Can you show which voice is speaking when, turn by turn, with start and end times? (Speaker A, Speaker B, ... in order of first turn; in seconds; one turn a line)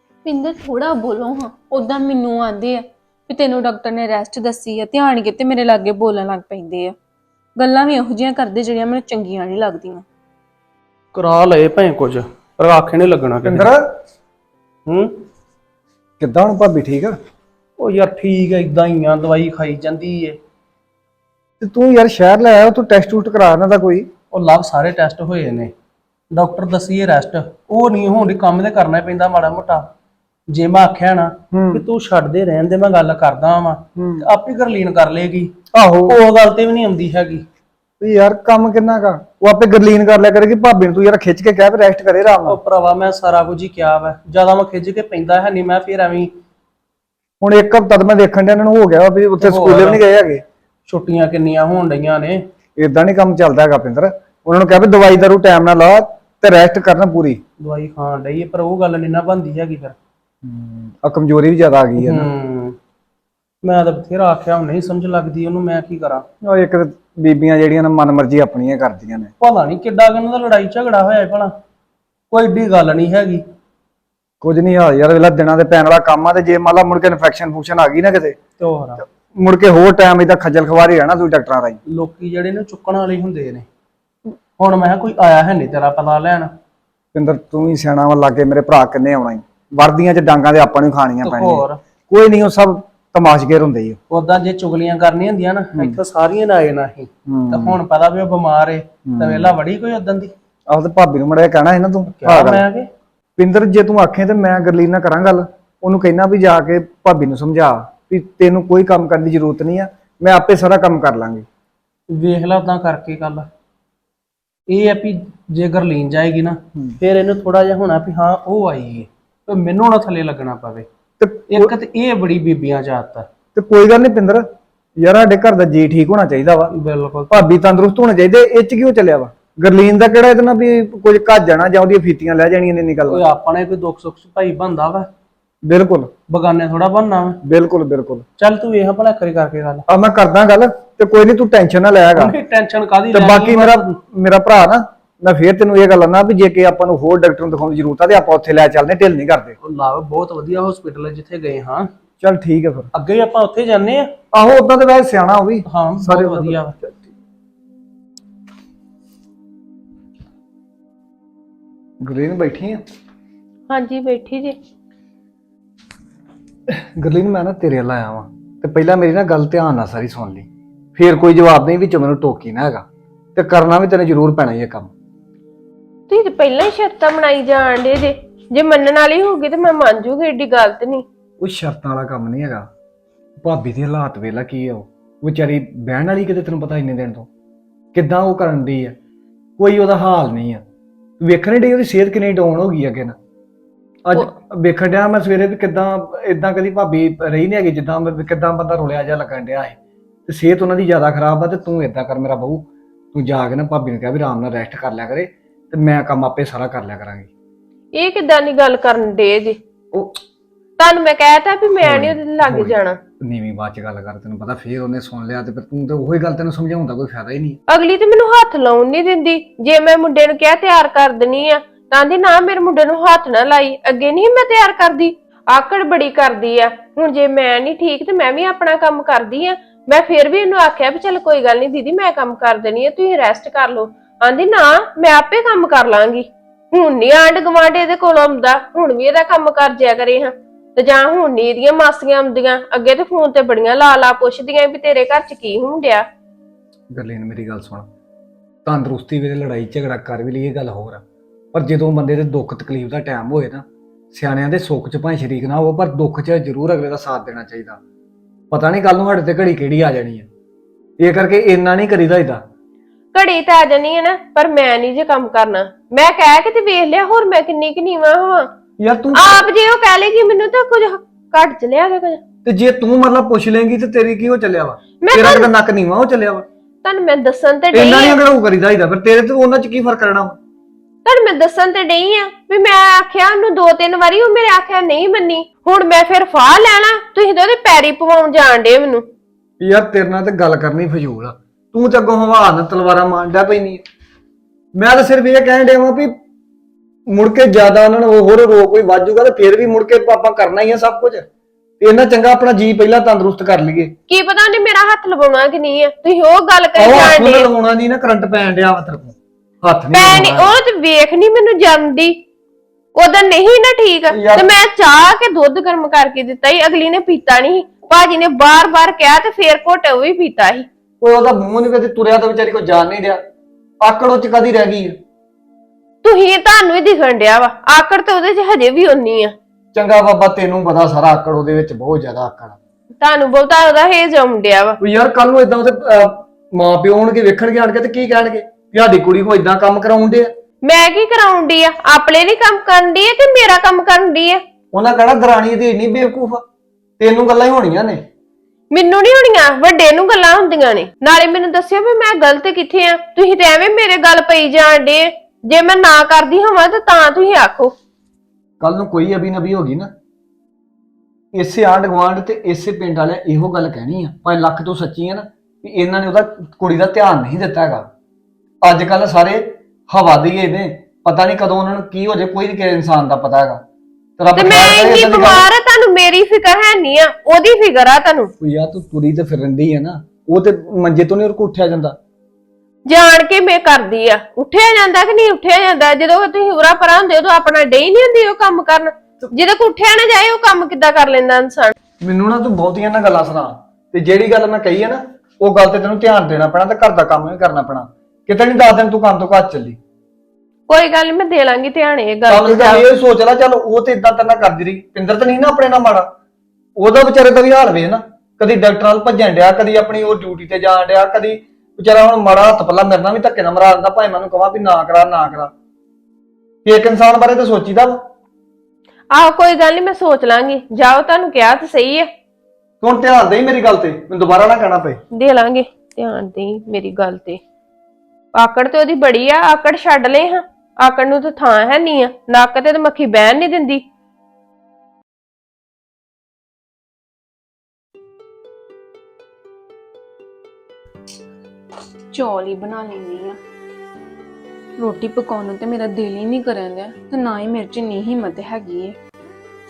Speaker A: 0.2-7.0
Speaker A: 7.6-10.1
Speaker B: 11.1-13.7
Speaker C: 13.4-13.9
Speaker B: 14.9-15.2
Speaker C: 16.2-17.2
Speaker B: 17.8-20.4
Speaker C: 21.6-24.1
Speaker B: 24.3-25.7
Speaker B: 26.3-29.9
Speaker B: 30.5-35.5
Speaker C: 31.5-31.8
Speaker C: 34.0-34.2
Speaker C: 35.7-36.2
Speaker B: 36.1-37.5
Speaker C: 38.0-42.6
Speaker B: 42.5-46.3
Speaker C: 47.4-50.4
Speaker B: 49.4-50.0
Speaker B: 50.9-52.4
Speaker C: 52.8-57.4
Speaker B: 57.6-60.0
Speaker C: 60.4-62.3
Speaker B: 62.0-62.8
Speaker B: 63.6-66.2
Speaker C: 66.4-69.3
Speaker B: 69.4-71.5
Speaker B: 72.3-73.4
Speaker C: 74.4-78.4
Speaker B: 78.6-79.0
Speaker C: 79.3-81.8
Speaker B: 81.9-83.7
Speaker B: 84.6-86.5
Speaker C: 87.1-94.0
Speaker B: 91.2-91.8
Speaker B: 94.1-100.3
Speaker C: 97.3-97.8
Speaker C: 99.1-99.6
Speaker C: 100.7-102.6
Speaker B: 102.2-102.9
Speaker C: 103.4-111.5
Speaker B: 112.1-113.5
Speaker B: 114.7-120.9
Speaker C: 121.2-121.7
Speaker B: 121.5-123.3
Speaker C: 123.5-124.4
Speaker C: 125.0-126.7
Speaker B: 126.7-127.4
Speaker C: 127.3-133.2
Speaker B: 133.1-135.1
Speaker C: 135.7-136.1
Speaker B: 136.3-137.4
Speaker C: 137.4-138.2
Speaker B: 138.4-139.9
Speaker C: 139.9-142.3
Speaker B: 142.2-143.9
Speaker C: 143.1-149.6
Speaker B: 149.6-151.9
Speaker C: 152.2-152.9
Speaker B: 152.9-154.1
Speaker C: 154.3-156.9
Speaker B: 155.7-156.8
Speaker C: 162.0-162.8
Speaker D: 163.7-164.6
Speaker C: 166.7-174.9
Speaker D: 176.1-181.1
Speaker C: 181.4-182.7
Speaker C: 183.4-187.3
Speaker C: 187.9-188.9
Speaker C: 189.6-190.6
Speaker C: 191.2-193.2
Speaker C: 194.1-207.3
Speaker D: 207.9-209.6
Speaker C: 209.9-210.2
Speaker D: 210.8-213.0
Speaker C: 211.8-217.6
Speaker D: 217.7-246.1
Speaker C: 246.9-247.9
Speaker C: 248.7-251.0
Speaker C: 251.5-257.8
Speaker C: 258.5-260.3
Speaker C: 261.0-262.4
Speaker D: 263.1-268.5
Speaker C: 268.8-269.4
Speaker D: 269.2-272.2
Speaker C: 272.4-276.4
Speaker D: 275.0-275.5
Speaker D: 276.8-278.2
Speaker C: 277.7-280.4
Speaker D: 281.1-289.1
Speaker C: 289.6-293.8
Speaker C: 294.8-296.2
Speaker C: 297.1-301.3
Speaker C: 301.8-303.9
Speaker D: 304.1-307.5
Speaker C: 306.8-310.6
Speaker D: 309.9-312.2
Speaker D: 312.9-320.7
Speaker C: 314.1-314.5
Speaker C: 321.0-323.2
Speaker C: 323.8-325.0
Speaker D: 326.0-329.4
Speaker C: 329.7-332.6
Speaker D: 333.0-334.8
Speaker C: 334.8-340.3
Speaker D: 340.6-344.4
Speaker C: 344.7-346.4
Speaker C: 347.0-348.0
Speaker D: 348.7-357.7
Speaker C: 358.6-359.9
Speaker C: 361.3-367.9
Speaker C: 368.6-373.6
Speaker C: 374.2-375.5
Speaker D: 374.4-378.3
Speaker C: 378.4-382.0
Speaker D: 382.9-391.7
Speaker C: 392.0-399.8
Speaker D: 400.7-402.9
Speaker C: 402.3-406.1
Speaker C: 406.8-415.5
Speaker C: 416.6-418.0
Speaker D: 419.1-422.1
Speaker C: 422.8-425.0
Speaker D: 425.1-427.4
Speaker D: 428.4-433.8
Speaker A: 442.1-443.4
Speaker A: 444.8-449.0